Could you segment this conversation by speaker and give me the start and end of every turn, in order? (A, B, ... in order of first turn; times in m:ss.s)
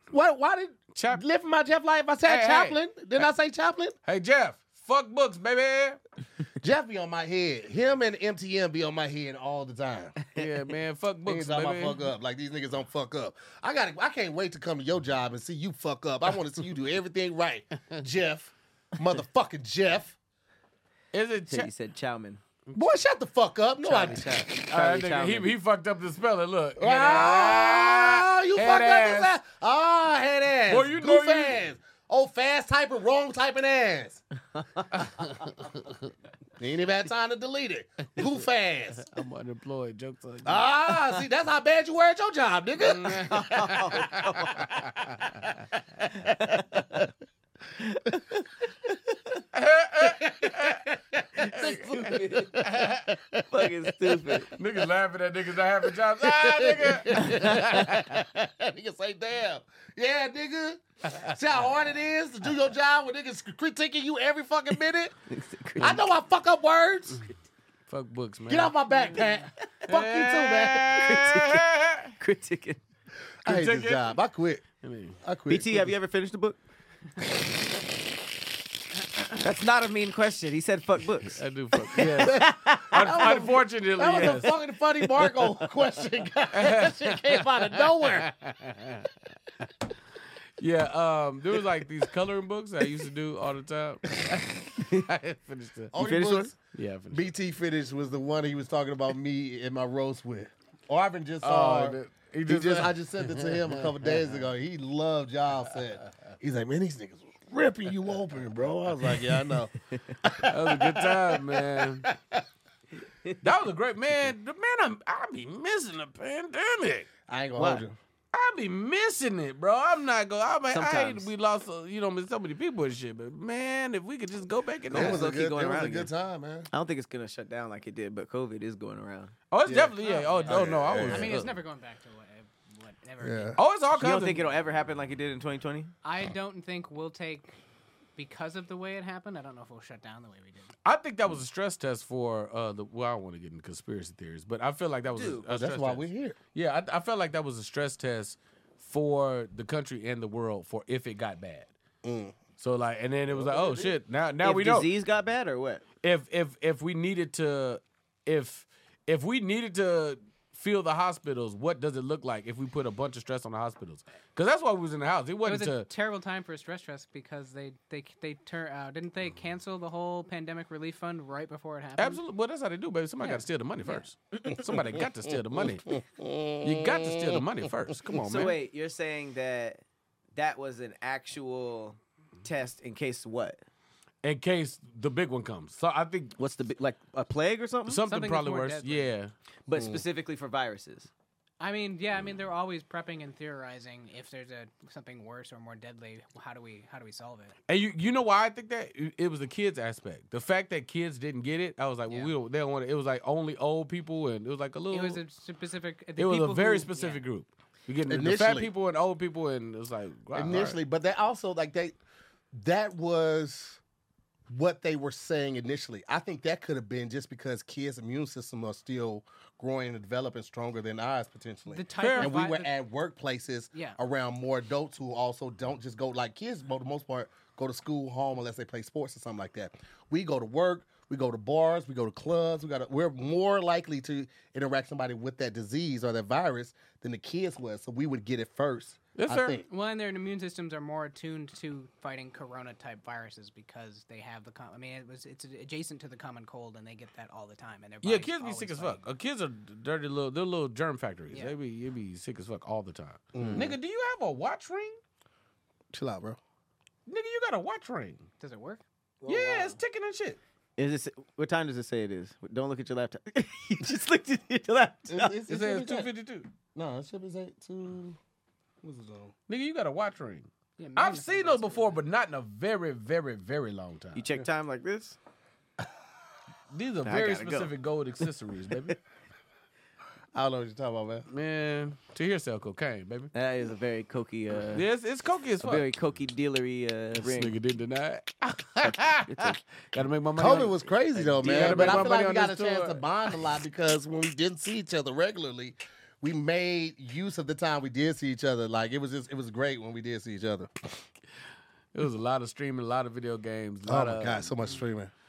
0:00.1-0:04.0 A
0:00.9-0:01.2 B
0:02.2-0:02.8 B
0:04.0-0:06.0 B
0:06.6-0:10.2 A
0:10.4-0:12.0 B
0:11.3-0:20.2 A
0:21.1-0:21.7 B
0:21.5-0:22.4 C
0:22.8-0:24.5 A
0:23.8-0:25.5 C
0:24.7-0:29.4 B
0:26.8-0:34.2 A
0:30.7-0:31.6 B
0:34.6-0:34.8 C
0:34.9-0:36.1 B
0:36.6-0:39.1 A
0:39.1-0:41.2 B
0:40.4-0:43.8 A
0:42.8-0:45.5 B
0:43.1-0:44.7 C
0:46.3-0:46.6 C
0:46.4-0:47.1 A
0:47.8-0:48.9 C
0:49.5-0:50.9 B
0:50.0-0:54.4 A
0:51.5-0:53.1 B
0:53.5-0:54.5 C
0:54.5-0:58.1 B
0:55.9-1:05.2 A
0:57.2-0:57.8 C
1:05.3-1:06.0 C
1:05.8-1:07.2 A
1:07.9-1:08.7 B
1:08.5-1:11.1 A
1:09.9-1:12.1 B
1:10.9-1:12.8 C
1:13.4-1:14.6 A
1:13.4-1:14.1 B
1:14.8-1:15.2 B
1:15.2-1:15.9 A
1:15.5-1:16.6 C
1:19.3-1:23.1 C
1:21.2-1:24.6 B
1:22.2-1:28.3 A
1:26.5-1:29.1 B
1:30.6-1:35.9 B
1:34.2-1:34.4 A
1:35.9-1:36.6 A
1:36.0-1:36.5 C
1:36.7-1:37.3 B
1:37.1-1:49.7 A
1:41.4-1:43.9 B
1:49.9-1:50.2 C
1:50.2-1:52.4 A
1:50.5-1:52.1 B
1:53.4-1:57.1 B
1:57.3-1:58.0 A
1:57.6-1:57.8 C
1:58.3-2:05.3 B
2:00.7-2:01.3 C
2:04.9-2:06.1 C
2:04.9-2:06.7 A
2:06.7-2:09.3 C
2:09.5-2:11.6 B
2:09.7-2:10.0 A
2:10.0-2:13.6 D
2:10.5-2:11.4 A
2:13.2-2:13.6 A
2:13.6-2:14.4 B
2:13.9-2:15.9 C
2:16.0-2:17.5 D
2:18.2-2:20.7 D
2:20.8-2:31.7 B
2:25.1-2:25.5 C
2:25.5-2:26.4 A
2:32.0-2:32.4 A
2:32.6-2:34.9 B
2:33.3-2:34.0 A
2:34.4-2:35.8 C
2:36.0-2:45.9 B
2:45.4-2:52.2 D
2:52.0-2:55.9 B
2:53.2-2:53.5 D
2:54.5-2:55.0 A
2:55.5-2:57.4 A
2:56.6-2:58.6 B
2:58.1-2:59.8 C
3:00.4-3:03.6 C
3:04.2-3:06.4 B
3:06.4-3:08.0 C
3:07.9-3:09.3 B
3:08.0-3:09.1 D
3:09.7-3:11.1 C
3:09.8-3:10.0 A
3:11.6-3:17.6 D
3:17.7-3:25.2 B
3:24.9-3:27.2 D
3:26.2-3:30.8 B
3:28.1-3:28.7 A
3:30.3-3:32.0 A
3:32.5-3:33.8 A
3:34.5-3:59.7 A
3:41.7-3:42.7 D
3:42.0-3:42.4 B
3:43.7-3:44.0 D
3:59.2-3:59.6 B
3:59.7-4:09.0 D
4:08.0-4:15.0 B
4:13.3-4:13.8 A
4:13.4-4:13.7 C
4:15.9-4:16.4 A
4:17.1-4:18.2 B
4:18.4-4:18.8 D
4:19.2-4:19.8 A
4:19.3-4:20.4 B
4:20.8-4:25.4 C
4:25.1-4:26.1 A
4:25.5-4:26.5 B
4:26.7-4:28.2 A
4:28.8-4:29.3 A
4:29.5-4:34.4 B
4:30.8-4:32.0 D
4:34.2-4:35.2 C
4:36.7-4:39.0 B
4:37.0-4:37.7 C
4:40.3-4:41.3 A
4:41.3-4:43.3 B
4:43.3-4:44.9 C
4:44.7-4:45.8 B
4:45.6-4:47.6 C
4:47.2-4:50.8 B
4:48.8-4:49.6 C
4:50.4-5:01.0 A
4:51.1-4:52.1 C
4:51.4-4:53.1 B
5:01.9-5:04.5 B
5:03.9-5:05.1 A